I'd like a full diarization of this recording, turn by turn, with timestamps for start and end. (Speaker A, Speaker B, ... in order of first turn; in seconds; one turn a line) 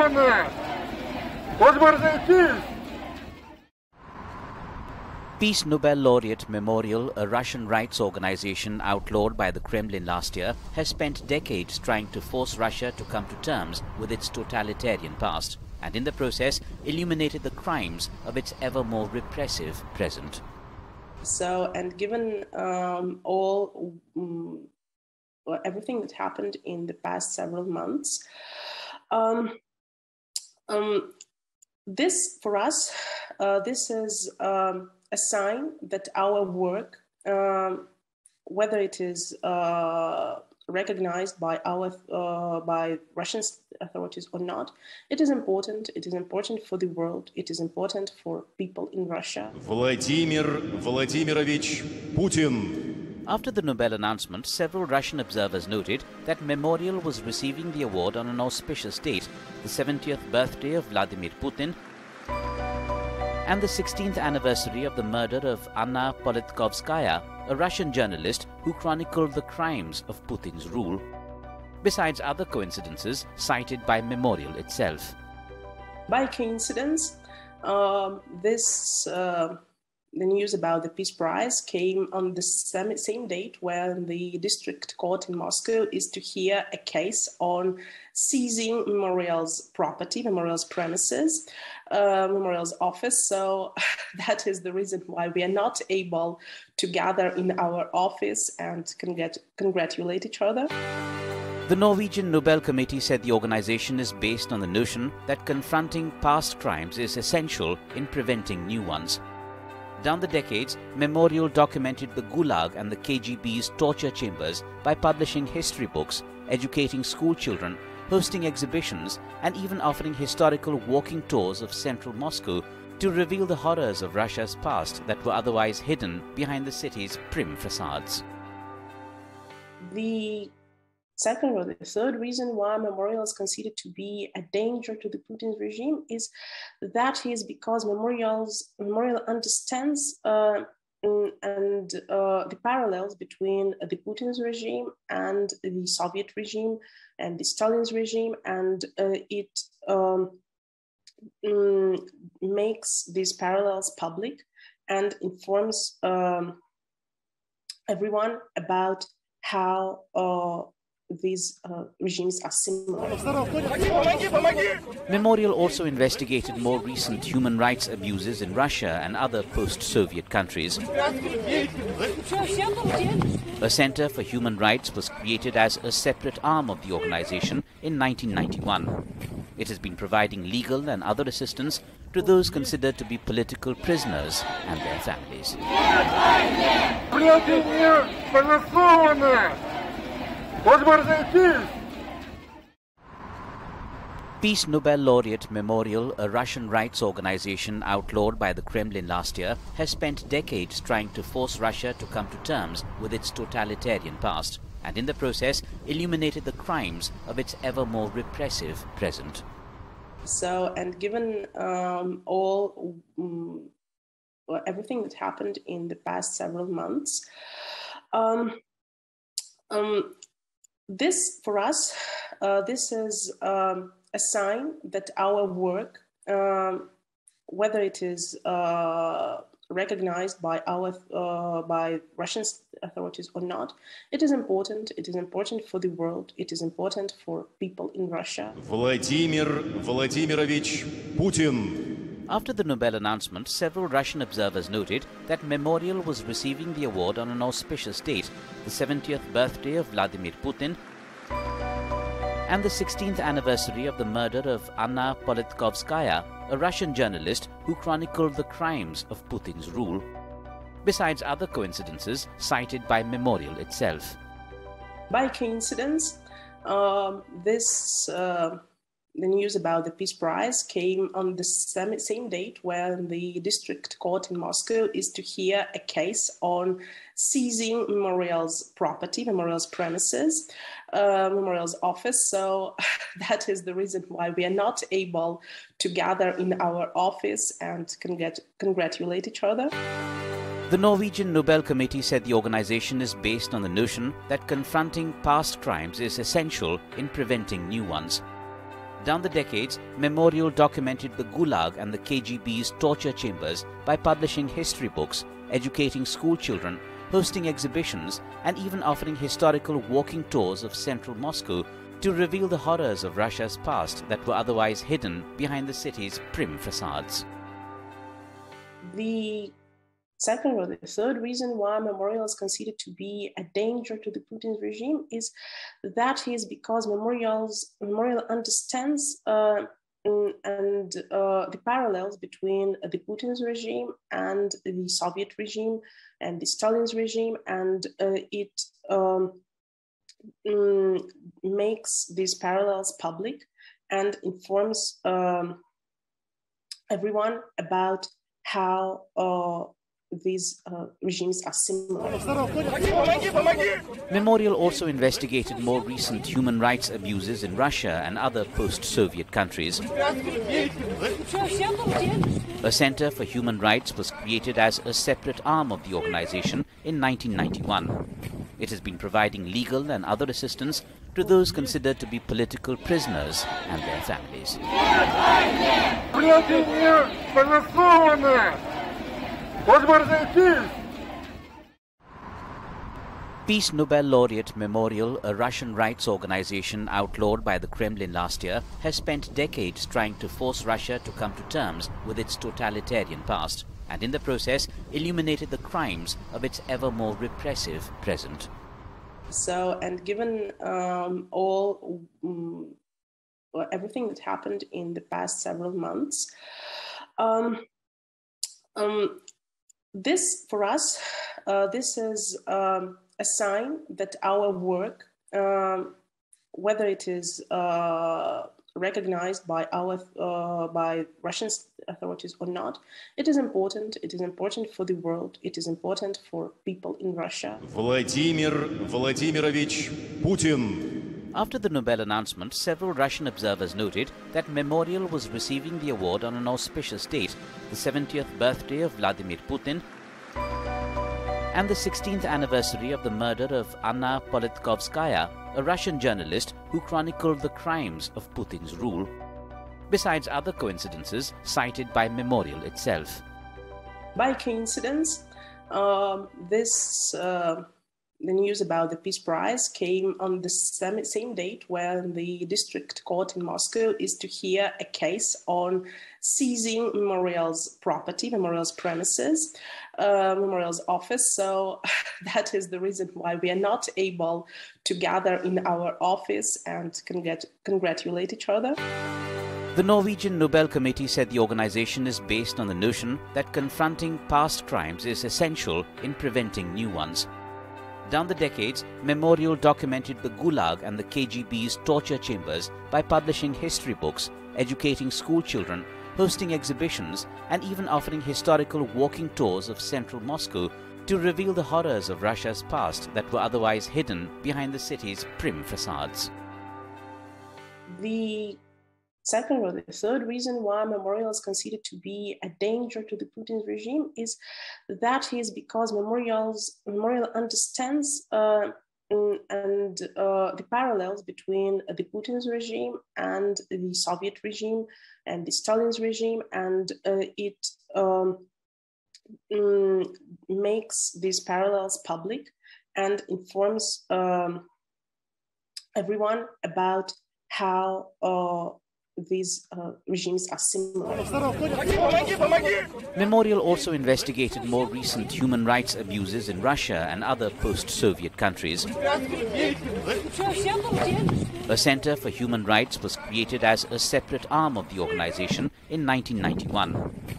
Speaker A: 5.4-20.4
Speaker B: 21.2-24.7
Speaker B: 25.5-28.2
Speaker B: 29.1-29.6
Speaker B: 30.7-31.1
Speaker B: 31.9-37.9
Speaker B: 38.5-49.6
Speaker C: 49.6-52.8
Speaker A: 53.3-61.8
Speaker A: 63.5-71.0
Speaker A: 71.8-75.2
Speaker B: 76.1-79.6
Speaker B: 80.1-100.7
Speaker A: 101.7-109.2
Speaker A: 110.0-128.2
Speaker B: 129.8-130.5
Speaker B: 131.2-150.4
Speaker B: 151.4-156.6
Speaker B: 157.9-164.0
Speaker A: 165.1-170.8
Speaker A: 173.6-178.9
Speaker A: 179.6-185.6
Speaker A: 194.4-209.4
Speaker B: 210.3-213.7
Speaker B: 214.5-217.2
Speaker B: 218.1-218.6
Speaker B: 219.7-220.2
Speaker B: 220.9-226.9
Speaker B: 227.5-238.6
Speaker C: 238.6-241.8
Speaker A: 242.3-250.8
Speaker A: 252.5-260.1
Speaker A: 260.8-264.2
Speaker B: 265.1-268.6
Speaker B: 269.1-289.8
Speaker A: 290.7-298.2
Speaker A: 299.0-317.3
Speaker B: 318.8-319.6
Speaker B: 320.2-325.3
Speaker B: 325.8-339.4
Speaker B: 340.4-345.6
Speaker B: 346.9-353.0
Speaker A: 354.1-359.9
Speaker A: 362.6-368.0
Speaker A: 368.6-374.6
Speaker A: 383.5-398.5
Speaker B: 399.3-402.8
Speaker B: 403.5-406.3
Speaker B: 407.2-407.6
Speaker B: 408.8-409.2
Speaker B: 409.9-416.0
Speaker B: 416.5-427.6
Speaker C: 427.6-430.9
Speaker A: 431.3-439.8
Speaker A: 441.5-449.1
Speaker A: 449.9-453.2
Speaker B: 454.2-457.7
Speaker B: 458.2-478.8
Speaker A: 479.7-487.3
Speaker A: 488.1-506.3
Speaker B: 507.9-508.6
Speaker B: 509.2-528.5
Speaker B: 529.5-534.7
Speaker B: 536.0-541.9
Speaker A: 543.2-548.9
Speaker A: 551.7-557.0